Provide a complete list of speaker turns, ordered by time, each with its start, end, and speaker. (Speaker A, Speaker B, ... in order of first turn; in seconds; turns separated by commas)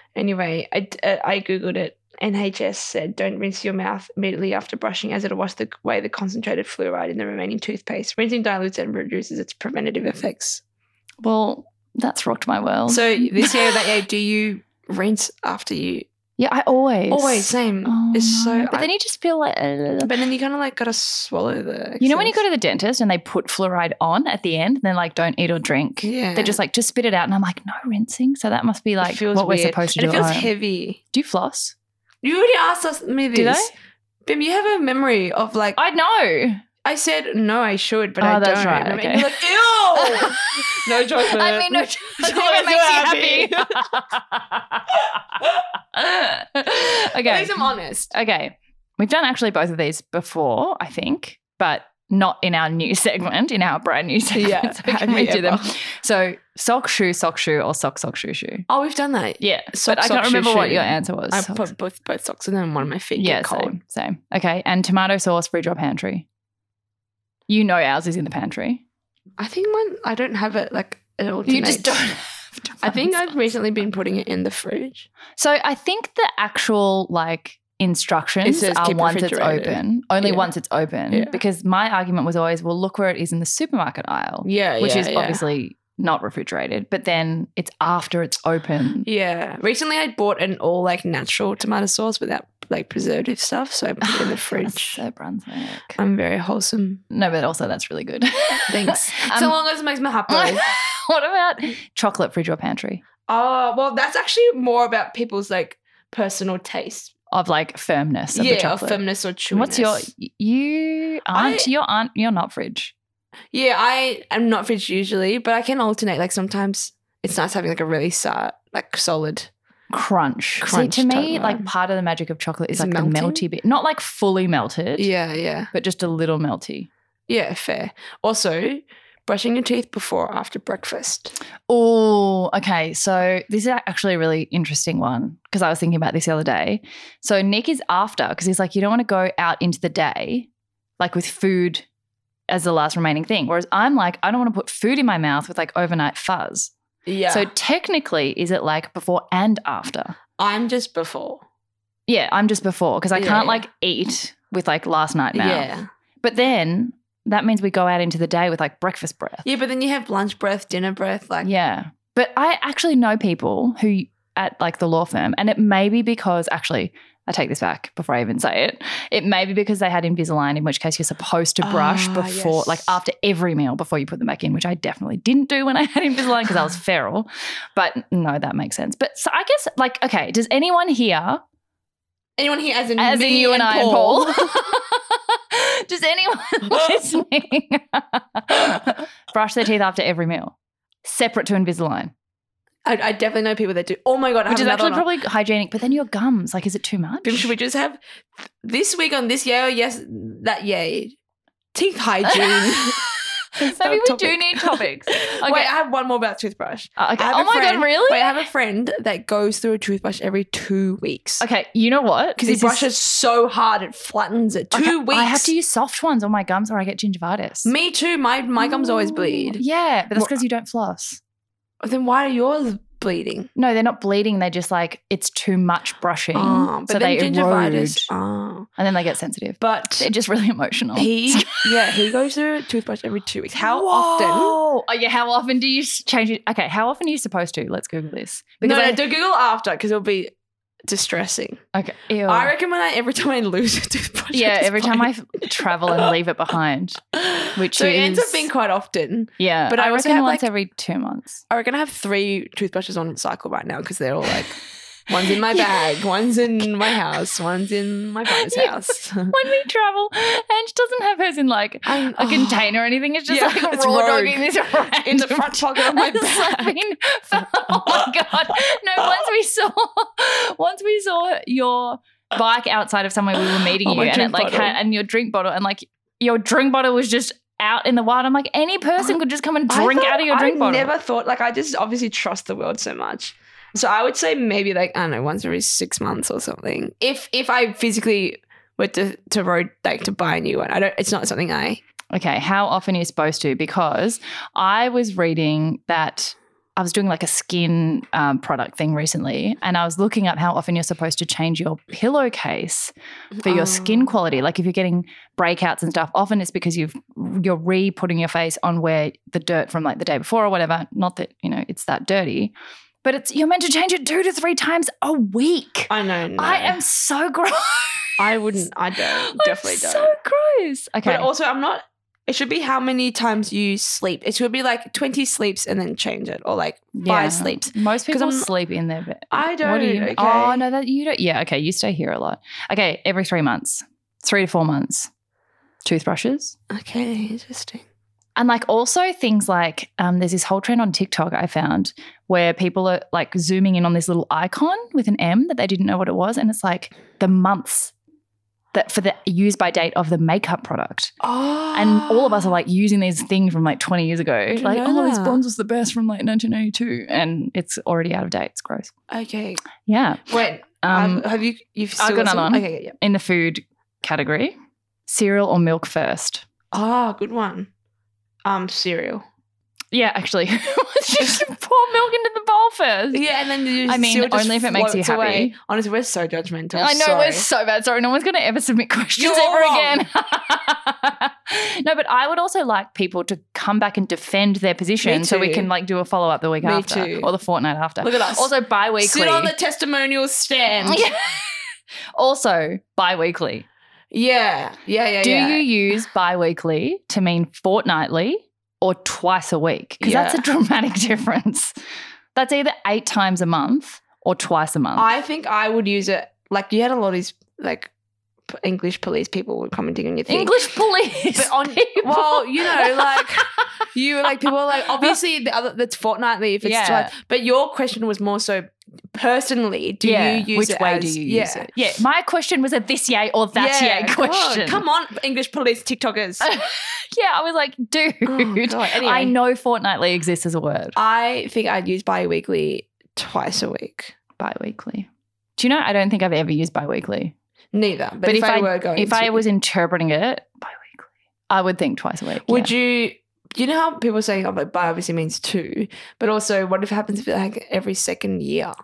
Speaker A: 0.1-10.6, Speaker B: 11.2-13.6, Speaker A: 12.9-16.1, Speaker B: 16.4-20.1, Speaker A: 17.1-18.9, Speaker A: 20.0-22.4, Speaker B: 22.0-30.5, Speaker A: 26.0-26.6, Speaker A: 29.0-31.0, Speaker B: 31.1-31.7, Speaker A: 32.2-33.7, Speaker B: 33.3-33.7, Speaker A: 34.2-35.8, Speaker B: 35.8-36.6, Speaker A: 36.8-43.8, Speaker B: 38.2-45.0, Speaker B: 45.9-47.5, Speaker A: 47.1-48.1, Speaker B: 48.1-58.7, Speaker A: 54.3-55.7, Speaker A: 58.7-63.8, Speaker B: 59.4-61.7, Speaker B: 63.1-66.2, Speaker B: 67.5-68.8, Speaker A: 69.4-71.9, Speaker B: 71.5-73.5, Speaker A: 72.8-75.1, Speaker B: 75.4-89.1, Speaker A: 78.4-80.5, Speaker A: 81.1-81.4, Speaker A: 84.4-85.4, Speaker A: 89.0-95.0, Speaker B: 94.0-96.0, Speaker A: 96.0-97.0, Speaker B: 97.1-99.5, Speaker A: 98.7-100.6, Speaker B: 100.3-103.0, Speaker A: 103.3-107.1, Speaker B: 107.3-112.9, Speaker A: 108.3-110.1, Speaker A: 111.3-111.7, Speaker A: 113.5-119.5, Speaker B: 119.9-125.1, Speaker A: 120.6-121.7, Speaker A: 122.7-123.4, Speaker A: 125.0-125.7, Speaker B: 125.7-126.9, Speaker A: 127.3-131.3, Speaker B: 131.7-141.8, Speaker B: 142.5-146.7, Speaker A: 147.1-147.5, Speaker B: 147.3-150.2, Speaker A: 150.4-151.4, Speaker B: 152.1-155.7, Speaker A: 153.1-153.6, Speaker A: 155.3-155.9, Speaker B: 156.2-159.4, Speaker A: 159.4-161.5, Speaker B: 161.4-181.4, Speaker A: 171.6-173.0, Speaker A: 182.4-184.6, Speaker B: 183.0-192.1, Speaker A: 192.8-195.1, Speaker B: 194.5-197.5, Speaker A: 197.2-198.0, Speaker A: 198.6-201.2, Speaker A: 201.7-203.0, Speaker B: 202.3-205.7, Speaker A: 203.6-211.4, Speaker B: 207.0-208.4, Speaker B: 211.4-212.8, Speaker A: 212.4-215.5, Speaker B: 214.7-217.7, Speaker A: 217.6-219.6, Speaker B: 218.6-221.2, Speaker A: 221.8-223.5, Speaker B: 223.6-228.1, Speaker A: 226.3-228.7, Speaker B: 228.8-232.1, Speaker A: 229.6-230.1, Speaker A: 230.9-234.6, Speaker B: 233.5-239.0, Speaker A: 238.6-240.3, Speaker A: 240.8-241.6, Speaker B: 241.7-242.5, Speaker A: 242.2-245.1, Speaker B: 244.3-247.0, Speaker A: 245.7-246.1, Speaker A: 247.1-250.5, Speaker B: 247.5-248.5, Speaker B: 249.4-251.4, Speaker A: 251.5-254.6, Speaker A: 255.1-259.4, Speaker B: 255.4-255.9, Speaker B: 258.3-280.9, Speaker A: 261.9-262.6, Speaker A: 263.3-266.8, Speaker A: 267.6-268.2, Speaker A: 273.5-274.8, Speaker A: 279.7-291.8, Speaker B: 292.1-321.3, Speaker A: 303.3-304.1, Speaker A: 315.9-316.8, Speaker A: 318.2-320.1, Speaker A: 321.0-328.5, Speaker B: 326.9-335.1, Speaker A: 329.3-330.6, Speaker B: 335.8-336.6, Speaker A: 336.7-337.8, Speaker B: 338.4-347.9, Speaker B: 348.7-351.1, Speaker A: 351.2-352.5, Speaker B: 351.7-358.9, Speaker A: 354.5-355.4, Speaker A: 359.1-359.6, Speaker B: 359.8-361.2, Speaker A: 360.3-362.9, Speaker B: 362.0-364.6, Speaker B: 365.1-366.4, Speaker A: 366.7-367.7, Speaker A: 368.4-369.2, Speaker B: 369.9-373.2, Speaker A: 373.1-377.4, Speaker B: 373.9-375.5, Speaker B: 376.7-389.5, Speaker A: 379.1-380.0, Speaker A: 385.0-385.7, Speaker A: 386.6-387.3, Speaker A: 388.0-391.1, Speaker B: 390.8-393.7, Speaker A: 394.1-395.6, Speaker B: 395.2-401.7, Speaker A: 400.0-400.4, Speaker B: 402.3-405.1, Speaker A: 404.9-407.9, Speaker A: 408.5-410.7, Speaker B: 410.3-413.8, Speaker A: 411.3-421.7, Speaker B: 416.6-417.1, Speaker B: 420.0-424.8, Speaker A: 423.5-426.5, Speaker B: 426.4-431.0, Speaker A: 428.2-429.3, Speaker A: 430.9-434.1, Speaker B: 434.4-437.3, Speaker A: 437.7-439.4, Speaker B: 438.2-442.7, Speaker A: 442.4-448.7